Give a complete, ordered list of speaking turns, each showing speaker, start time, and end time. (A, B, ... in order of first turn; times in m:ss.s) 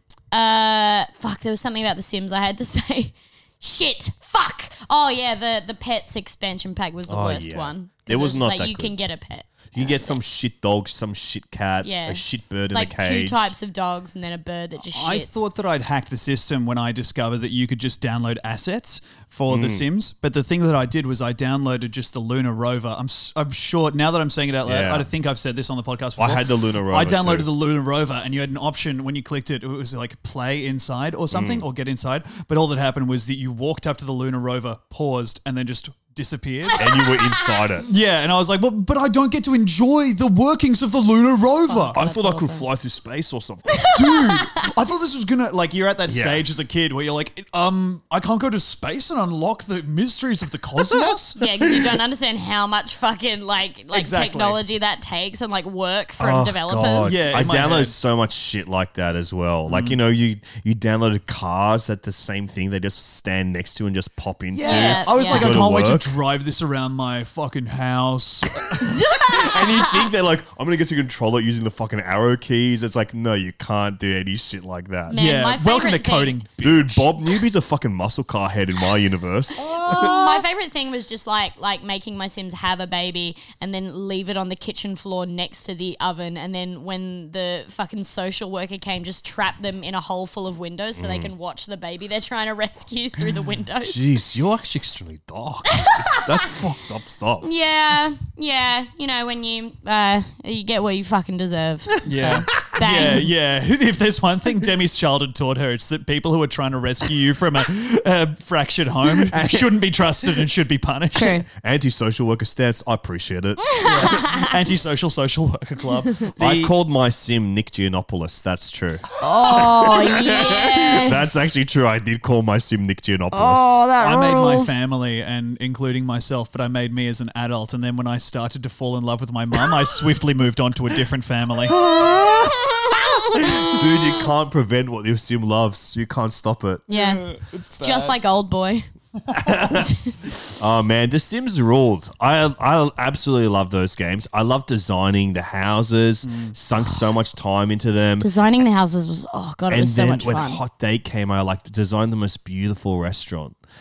0:00.3-0:10.2 A
0:07.1-0:08.9 B
0:09.7-0:13.5 B
0:11.8-0:15.4 A
0:14.9-0:36.8 C
0:19.5-0:19.8 B
0:24.6-0:25.1 B
0:26.2-0:27.5 B
0:31.3-0:31.6 B
0:36.8-0:37.9 B
0:36.9-0:37.8 A
0:37.9-0:42.0 C
0:41.7-0:42.6 A
0:41.9-0:44.1 B
0:43.9-0:51.5 C
0:46.1-0:46.4 B
0:51.4-0:57.2 A
0:53.9-0:54.6 C
0:56.2-1:06.1 B
0:57.0-0:58.0 C
0:59.7-1:00.0 C
1:04.5-1:09.0 C
1:04.6-1:05.6 A
1:08.8-1:10.1 A
1:09.2-1:15.2 B
1:15.1-1:16.4 A
1:15.1-1:17.1 C
1:16.6-1:20.2 B
1:19.6-1:20.4 C
1:19.6-1:34.1 A
1:31.0-1:31.3 B
1:33.8-1:37.5 B
1:35.8-1:36.2 A
1:37.4-1:43.2 A
1:42.0-1:51.4 C
1:49.3-1:49.8 B
1:51.1-1:51.4 A
1:51.5-1:54.2 B
1:53.7-1:54.5 A
1:53.8-1:56.7 C
1:56.4-2:03.8 B
1:59.2-2:01.4 A
2:03.3-2:04.8 A
2:04.0-2:11.8 C
2:11.7-2:12.8 B
2:12.3-2:13.8 A
2:13.3-2:16.8 B
2:16.9-2:18.2 C
2:16.9-2:18.9 A
2:19.3-2:19.9 B
2:19.7-2:20.1 A
2:20.5-2:28.3 B
2:26.2-2:26.5 C
2:28.2-2:30.6 A
2:29.7-2:33.6 B